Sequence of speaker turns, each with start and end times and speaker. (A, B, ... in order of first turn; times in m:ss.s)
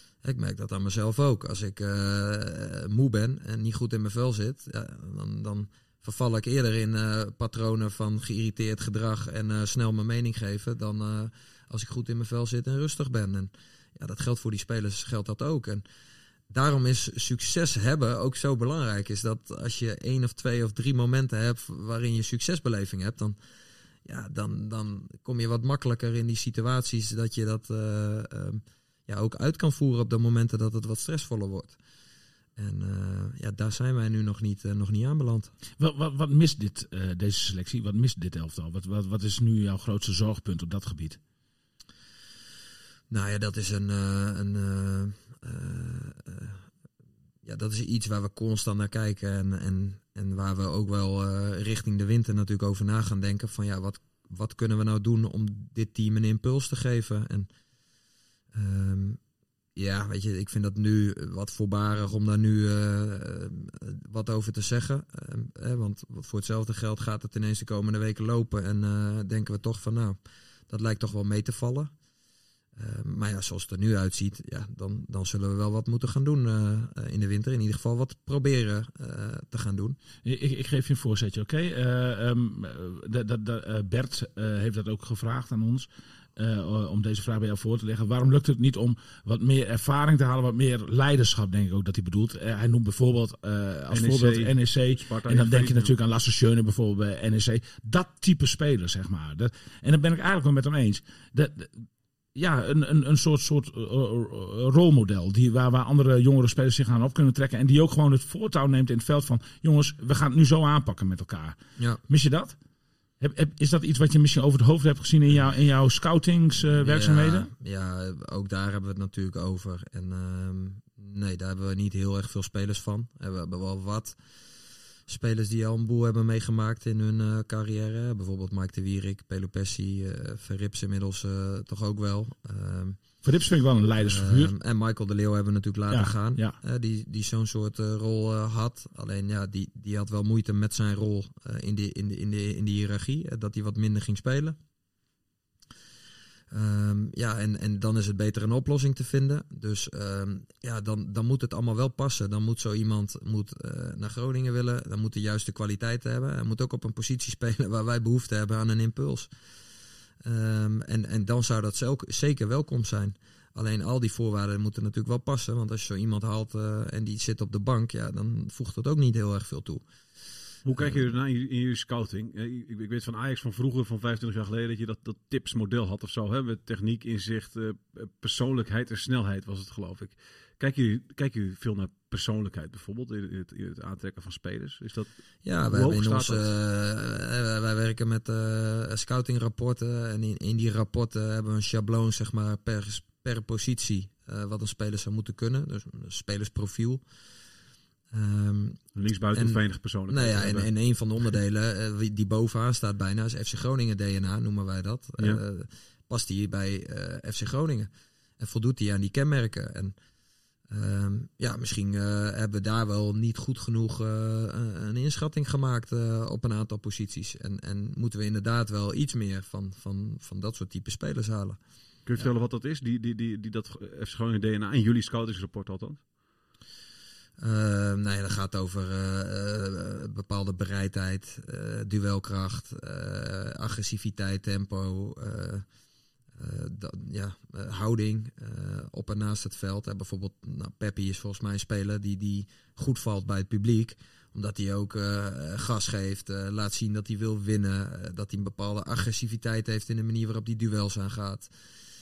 0:00.2-0:15.8 A
0:16.5-0:23.4 A
0:24.0-0:31.8 A
0:32.6-0:35.5 A
0:35.8-0:41.2 B
0:43.1-0:46.6 A
0:47.4-0:57.5 A
0:58.5-0:59.2 A
0:59.8-1:10.2 A
1:10.7-1:11.9 A
1:12.8-1:20.0 A
1:20.2-1:52.6 B
1:33.9-1:35.9 C
1:53.2-1:57.5 B
1:56.8-2:04.2 A
2:05.1-2:13.0 A
2:13.2-2:14.5 B
2:14.0-2:24.6 A
2:15.9-2:16.6 B
2:26.5-2:39.3 A
2:40.2-2:49.8 A
2:50.6-3:05.1 C
2:50.8-2:51.0 A
3:05.4-3:17.0 A
3:05.7-3:06.5 C
3:18.1-3:30.0 A
3:18.9-3:20.7 C
3:30.7-3:41.6 A
3:42.1-3:46.0 C
3:47.4-3:55.6 A
3:56.4-4:11.5 A